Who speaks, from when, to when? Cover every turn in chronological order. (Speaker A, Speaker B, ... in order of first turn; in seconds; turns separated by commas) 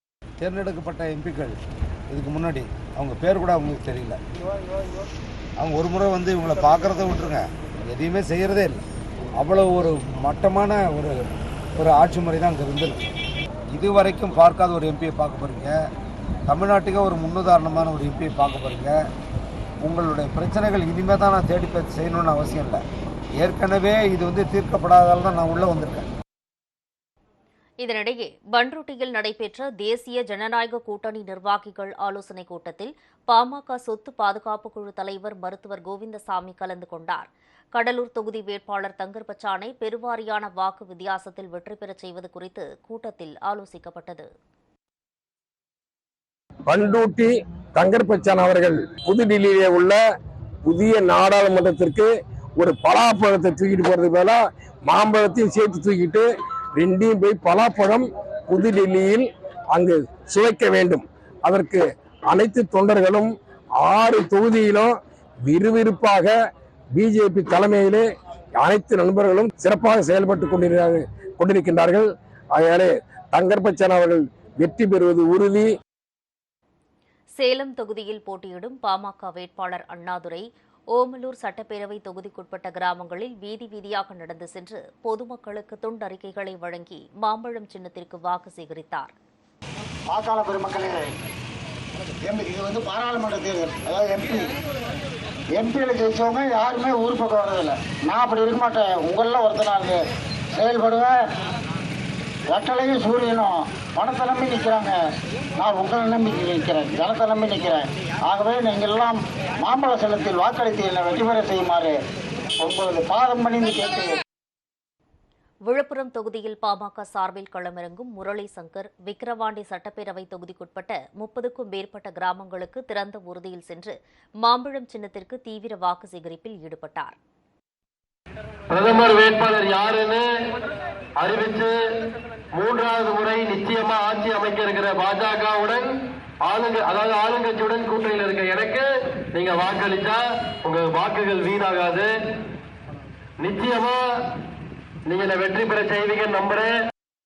Speaker A: 0.4-1.6, Speaker A: 2.1-4.2, Speaker A: 5.6-8.8, Speaker A: 9.4-13.0, Speaker A: 13.7-15.8, Speaker A: 16.5-19.0, Speaker A: 19.8-22.8, Speaker A: 23.4-26.1, Speaker B: 27.8-44.3, Speaker C: 46.7-50.0, Speaker C: 50.6-64.9, Speaker C: 65.4-66.3, Speaker C: 66.9-68.0, Speaker C: 68.6-75.7, Speaker B: 77.4-89.1, Speaker D: 90.1-91.0, Speaker D: 92.2-94.5, Speaker D: 95.5-100.0, Speaker D: 100.5-101.2, Speaker D: 102.5-104.9, Speaker D: 105.6-112.0, Speaker D: 112.6-114.2, Speaker B: 115.7-127.2, Speaker E: 128.7-130.2, Speaker E: 131.2-131.7, Speaker E: 132.5-135.9, Speaker E: 136.4-142.1, Speaker E: 143.4-144.0, Speaker E: 145.1-146.7